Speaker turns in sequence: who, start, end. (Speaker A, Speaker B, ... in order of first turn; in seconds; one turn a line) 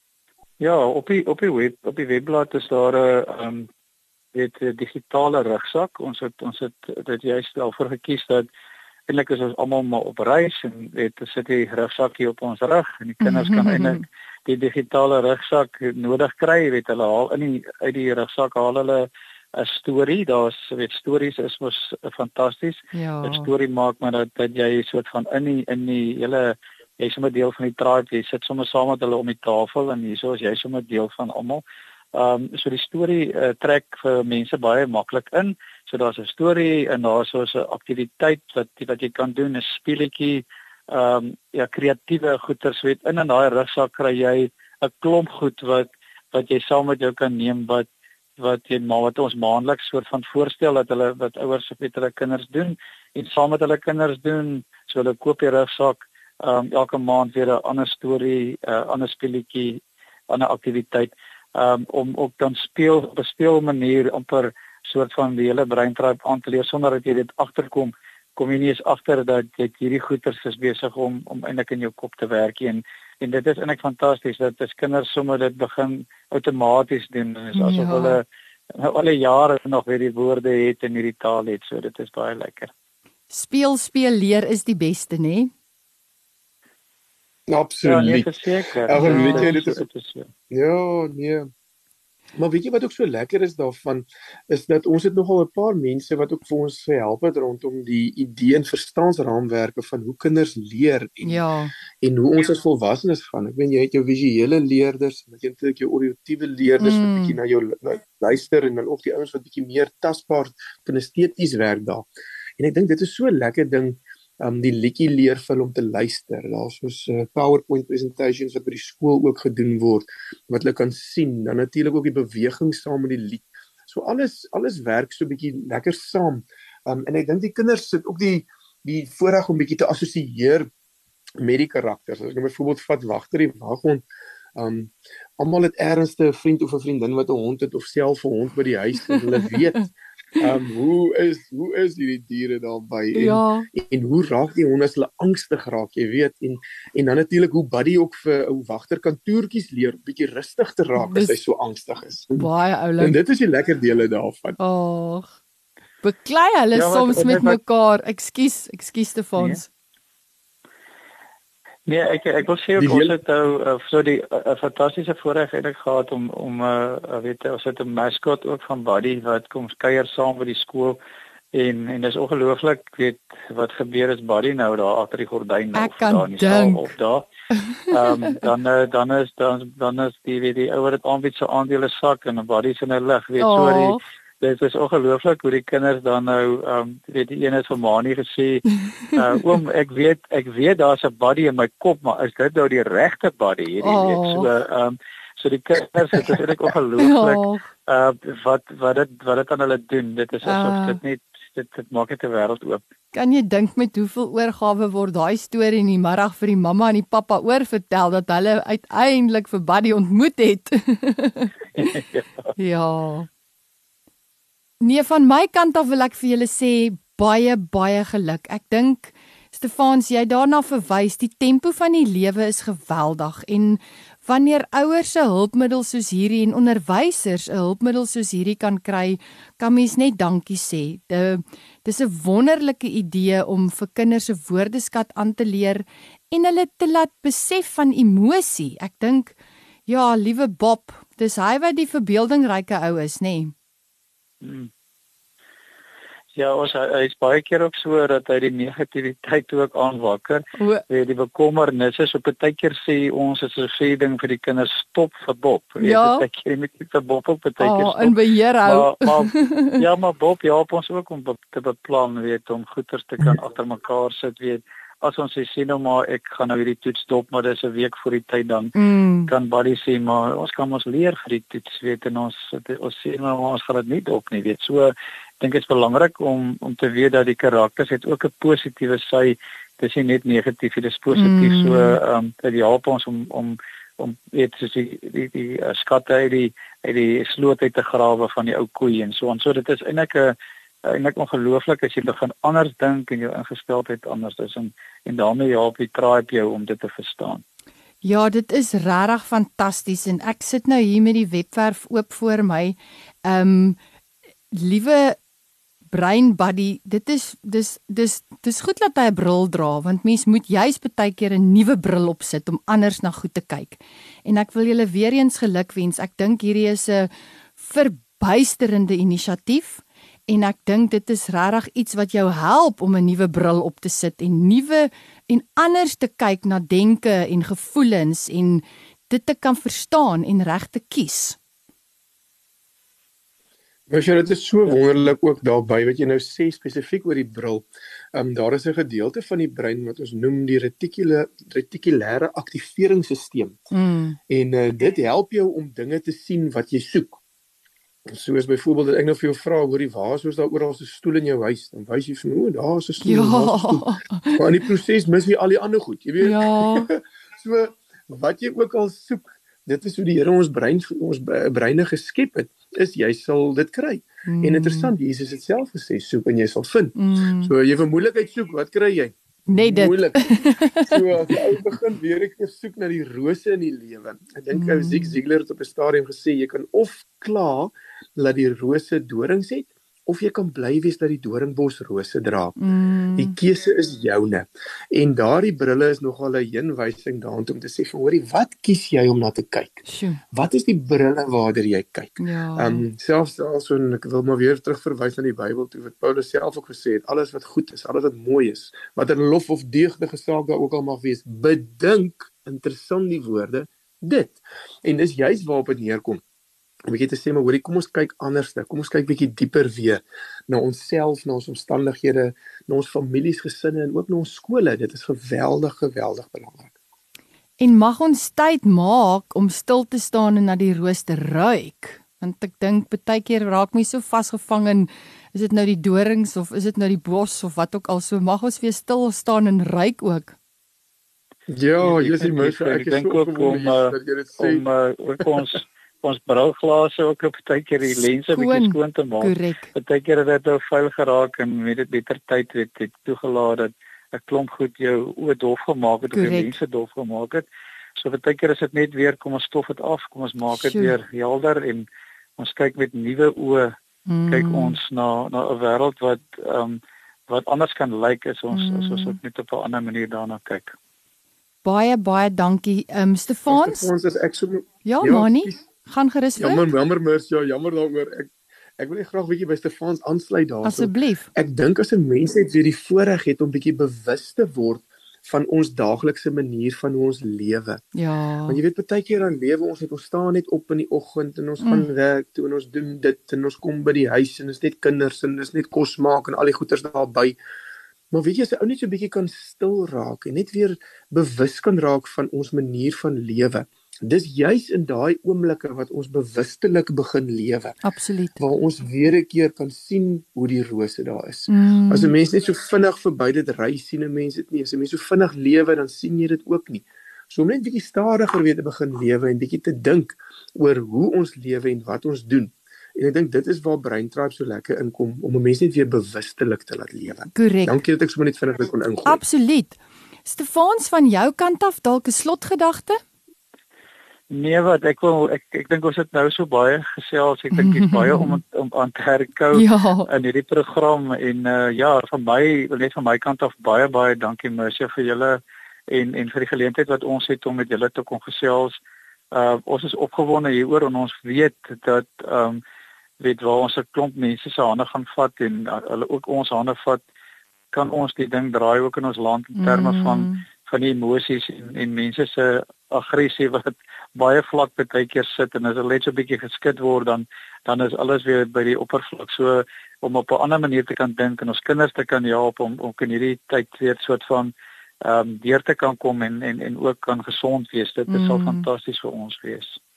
Speaker A: 0.6-3.7
Speaker A: 4.3-8.5
Speaker A: 9.1-31.6
Speaker B: 13.2-14.0
Speaker B: 22.9-23.5
Speaker A: 32.1-47.9
Speaker A: 48.4-82.7
Speaker B: 77.5-78.2
Speaker B: 83.3-85.5
Speaker C: 87.5-88.3
Speaker A: 87.8-90.3
Speaker C: 88.8-89.8
Speaker B: 88.9-89.5
Speaker C: 90.5-91.5
Speaker C: 92.4-101.4
Speaker B: 101.2-101.7
Speaker C: 102.0-112.1
Speaker B: 106.8-107.4
Speaker C: 112.6-130.7
Speaker C: 131.4-134.1
Speaker C: 134.6-152.5
Speaker B: 139.1-139.6
Speaker B: 143.2-143.7
Speaker B: 151.0-151.4
Speaker B: 152.4-153.2
Speaker C: 153.0-154.6
Speaker B: 154.6-155.3
Speaker B: 156.0-159.7
Speaker A: 156.8-157.6
Speaker A: 161.9-171.0
Speaker C: 162.8-163.2
Speaker A: 171.5-177.3
Speaker B: 175.8-176.9
Speaker B: 177.5-178.5
Speaker A: 177.9-202.8
Speaker B: 183.4-184.0
Speaker B: 188.9-189.2
Speaker B: 193.8-194.5
Speaker B: 197.0-197.7
Speaker B: 200.4-201.0
Speaker B: 203.1-212.0
Speaker A: 211.8-212.5
Speaker B: 212.6-213.3
Speaker B: 214.8-239.4
Speaker B: 239.9-243.5
Speaker A: 244.4-244.7
Speaker A: 246.3-268.8
Speaker B: 250.6-250.8
Speaker B: 255.8-256.2
Speaker B: 257.6-259.8
Speaker B: 268.8-269.3
Speaker A: 269.3-290.3
Speaker B: 281.1-282.0
Speaker A: 290.9-297.4
Speaker B: 298.0-303.8
Speaker B: 304.5-305.2
Speaker B: 305.9-331.4
Speaker C: 333.9-343.6
Speaker B: 343.7-344.2
Speaker C: 344.3-347.2
Speaker C: 348.1-370.3
Speaker B: 353.0-354.4
Speaker B: 356.2-356.9
Speaker B: 364.3-364.9
Speaker B: 367.0-367.5
Speaker B: 369.5-371.0
Speaker C: 370.8-382.6
Speaker B: 374.5-375.2
Speaker B: 382.6-383.4
Speaker C: 383.2-406.2
Speaker B: 389.9-390.2
Speaker B: 392.2-392.8
Speaker C: 406.9-416.7
Speaker B: 417.6-430.4
Speaker C: 431.5-434.6
Speaker A: 431.8-447.4
Speaker B: 437.8-439.7
Speaker B: 446.1-446.6
Speaker A: 448.0-451.9
Speaker B: 450.5-451.0
Speaker A: 452.4-453.8
Speaker B: 454.1-454.8
Speaker A: 454.3-460.8
Speaker B: 458.5-459.2
Speaker B: 461.6-463.9
Speaker C: 463.5-465.6
Speaker B: 464.9-466.7
Speaker C: 466.4-477.8
Speaker B: 470.6-471.3
Speaker B: 477.9-478.6
Speaker C: 478.5-487.4
Speaker B: 481.6-481.9
Speaker C: 488.1-497.8
Speaker B: 497.8-498.4
Speaker C: 498.4-519.2
Speaker B: 501.5-502.1
Speaker B: 517.3-517.8
Speaker B: 519.1-523.0
Speaker A: 524.3-538.8
Speaker B: 527.5-528.4
Speaker B: 529.5-530.1
Speaker A: 539.3-542.6
Speaker A: 543.2-547.0
Speaker A: 547.7-569.8
Speaker B: 549.6-550.4
Speaker B: 568.1-568.7